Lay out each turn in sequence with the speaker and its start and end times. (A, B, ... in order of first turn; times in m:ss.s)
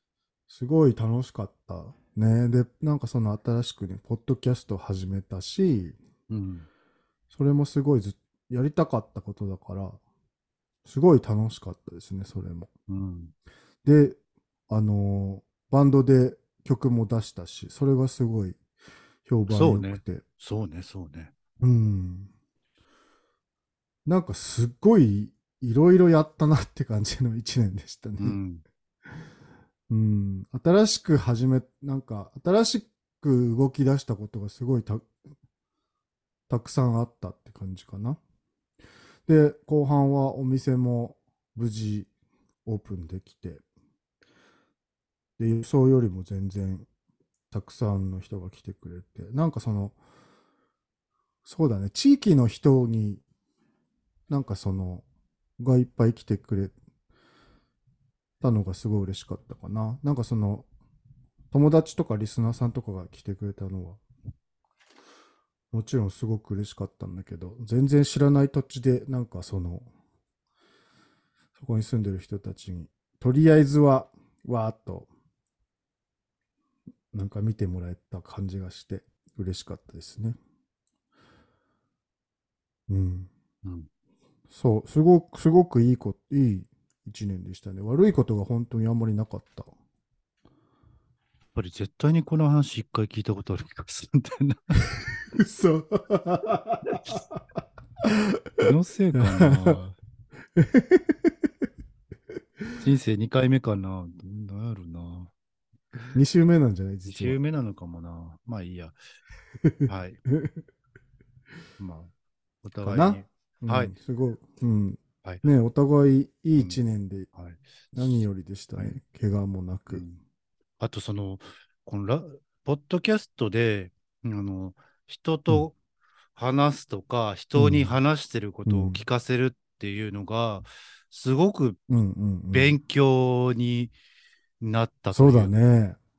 0:00.5-0:06.0 A
0:06.3-0:06.7 B
0:07.3-0:10.0 A
0:10.8-0:12.7 A
0:12.9-0:13.3 B
0:13.8-0:14.2 A
0:14.7-0:18.6 A
0:19.2-0:20.2 A
0:19.5-0:21.3 B
0:21.6-0:22.3 A
0:24.0-0:28.4 A
0:28.2-0:28.6 B
0:29.9-0:35.1 A
0:36.5-0:38.2 A
0:39.3-0:42.1 A
0:42.6-0:43.6 A
0:45.4-0:46.9 A
0:47.5-0:50.0 A
0:51.4-0:53.2 A
0:54.3-0:55.0 A
0:55.6-0:56.7 A
0:58.4-1:00.7 A
1:01.5-1:04.0 A
1:05.7-1:09.9 A
1:11.6-1:15.1 A
1:17.1-1:20.4 A
1:22.9-1:23.3 A
1:24.5-1:29.7 A
1:31.5-1:34.9 B
1:35.3-1:37.2 A
1:38.0-1:39.8 A
1:38.6-1:40.0 B
1:40.6-1:41.3 A
1:42.8-1:45.3 B
1:46.1-1:47.4 A
1:47.0-1:49.0 B
1:49.6-1:50.6 A
1:49.9-1:50.2 B
1:51.8-1:52.1 B
1:52.6-1:53.9 B
1:52.8-1:57.3 A
1:57.3-1:58.2 B
1:57.9-2:00.0 A
1:59.9-2:00.2 B
2:00.8-2:05.8 B
2:06.4-2:11.9 B
2:07.6-2:08.0 A
2:08.6-2:09.0 A
2:11.9-2:12.8 A
2:12.5-2:13.9 B
2:14.6-2:15.5 B
2:15.1-2:16.0 A